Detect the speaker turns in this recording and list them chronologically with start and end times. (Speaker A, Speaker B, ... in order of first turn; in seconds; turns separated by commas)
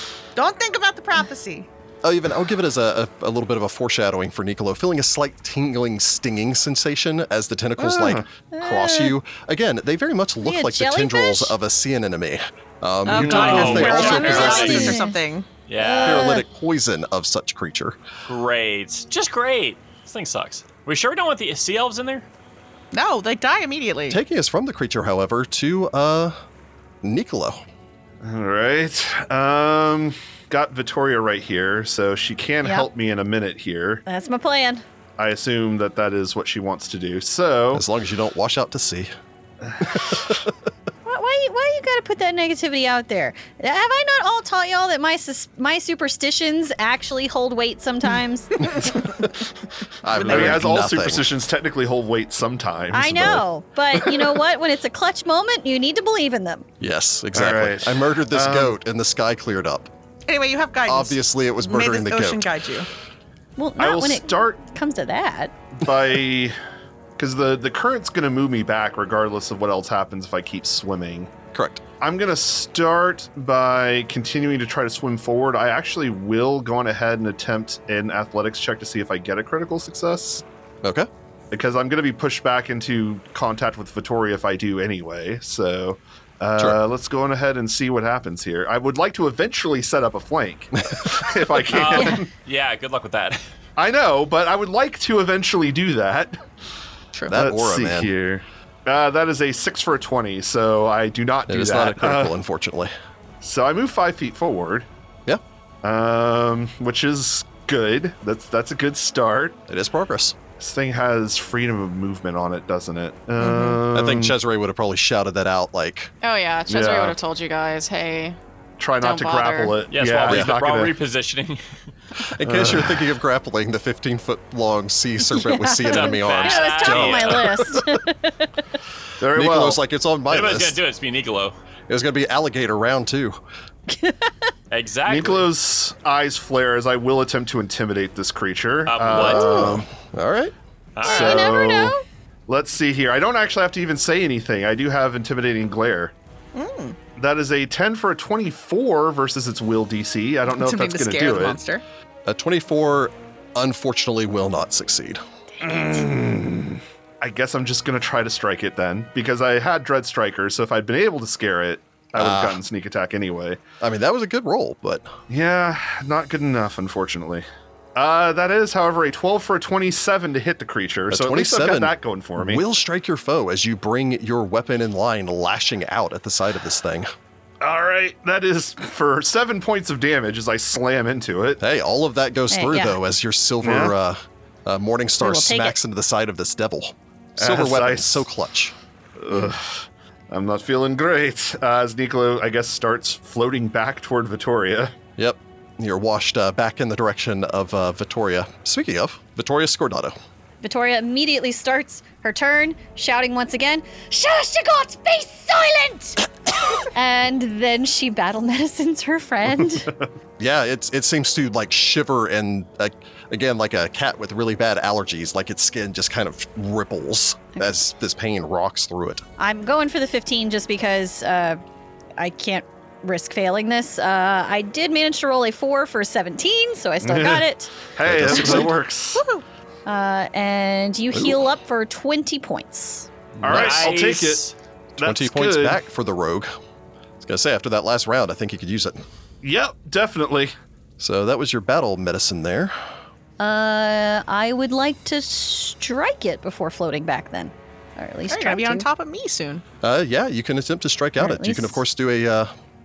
Speaker A: 0.4-1.7, Speaker B: 2.0-15.0, Speaker C: 7.8-8.3, Speaker D: 8.5-9.2, Speaker D: 10.4-11.6, Speaker A: 13.1-15.5, Speaker C: 13.1-13.9, Speaker E: 13.2-15.0, Speaker D: 13.7-15.2, Speaker E: 15.7-16.3, Speaker D: 15.8-16.4, Speaker B: 16.0-18.0, Speaker E: 18.3-22.3, Speaker A: 22.9-24.2, Speaker B: 24.1-26.4, Speaker B: 27.0-27.6, Speaker C: 28.2-34.0, Speaker D: 32.6-32.9, Speaker D: 34.1-34.8, Speaker C: 35.2-37.8, Speaker B: 37.7-39.1, Speaker C: 39.7-40.2, Speaker B: 39.8-40.5, Speaker D: 41.0-49.0, Speaker B: 50.0-51.3, Speaker C: 50.1-53.4, Speaker D: 52.9-56.6, Speaker B: 56.8-59.9, Speaker C: 57.3-58.8, Speaker A: 60.3-62.9, Speaker B: 60.9-62.5, Speaker D: 63.6-65.5, Speaker C: 63.8-64.6, Speaker C: 65.8-66.5, Speaker C: 67.2-71.3, Speaker B: 71.5-71.8, Speaker C: 72.0-80.4, Speaker B: 80.8-81.1, Speaker C: 81.5-92.3, Speaker E: 91.7-93.4, Speaker C: 93.8-96.5, Speaker B: 97.3-98.1, Speaker C: 97.3-102.3, Speaker B: 101.5-102.9, Speaker C: 103.4-104.9, Speaker C: 105.8-109.6, Speaker B: 109.7-110.4, Speaker C: 110.6-114.3, Speaker A: 113.4-113.8, Speaker B: 113.9-116.1, Speaker F: 116.2-118.4, Speaker C: 116.7-117.2, Speaker C: 118.8-121.0, Speaker F: 119.0-119.8, Speaker E: 119.9-121.6, Speaker B: 120.3-120.5, Speaker B: 122.2-128.0, Speaker C: 122.4-123.1, Speaker D: 125.3-128.5, Speaker E: 125.8-127.5, Speaker C: 129.2-129.8, Speaker B: 129.3-130.8, Speaker E: 130.3-131.6, Speaker B: 131.9-133.4, Speaker D: 133.9-134.5, Speaker E: 134.7-135.5, Speaker C: 135.1-139.9, Speaker E: 138.9-139.7, Speaker B: 139.1-140.5, Speaker E: 141.0-141.7, Speaker C: 141.0-146.1, Speaker D: 141.0-142.0, Speaker A: 146.6-147.0, Speaker C: 147.2-151.6, Speaker A: 150.5-151.8, Speaker B: 152.3-155.2, Speaker C: 155.6-163.6, Speaker B: 162.2-162.6, Speaker B: 163.8-165.2, Speaker C: 165.3-172.6, Speaker B: 171.1-177.1, Speaker C: 177.6-181.6, Speaker B: 181.6-188.8, Speaker D: 182.5-183.0, Speaker C: 183.6-183.9, Speaker D: 185.2-185.8, Speaker C: 187.4-188.3, Speaker C: 189.2-194.9, Speaker B: 195.2-200.2, Speaker D: 200.6-209.9, Speaker B: 210.4-219.2, Speaker D: 219.4-221.6, Speaker D: 222.2-227.7, Speaker C: 227.0-229.2, Speaker B: 228.0-228.8, Speaker A: 229.1-229.4, Speaker D: 229.9-233.1, Speaker B: 231.1-231.5, Speaker B: 233.4-234.0, Speaker C: 233.4-234.5, Speaker E: 233.5-234.5, Speaker C: 235.0-235.8, Speaker B: 235.0-236.5, Speaker B: 237.2-239.0, Speaker C: 239.4-240.6, Speaker B: 241.0-242.7, Speaker D: 243.4-248.9, Speaker A: 248.3-249.6, Speaker B: 249.8-252.5, Speaker D: 251.2-251.8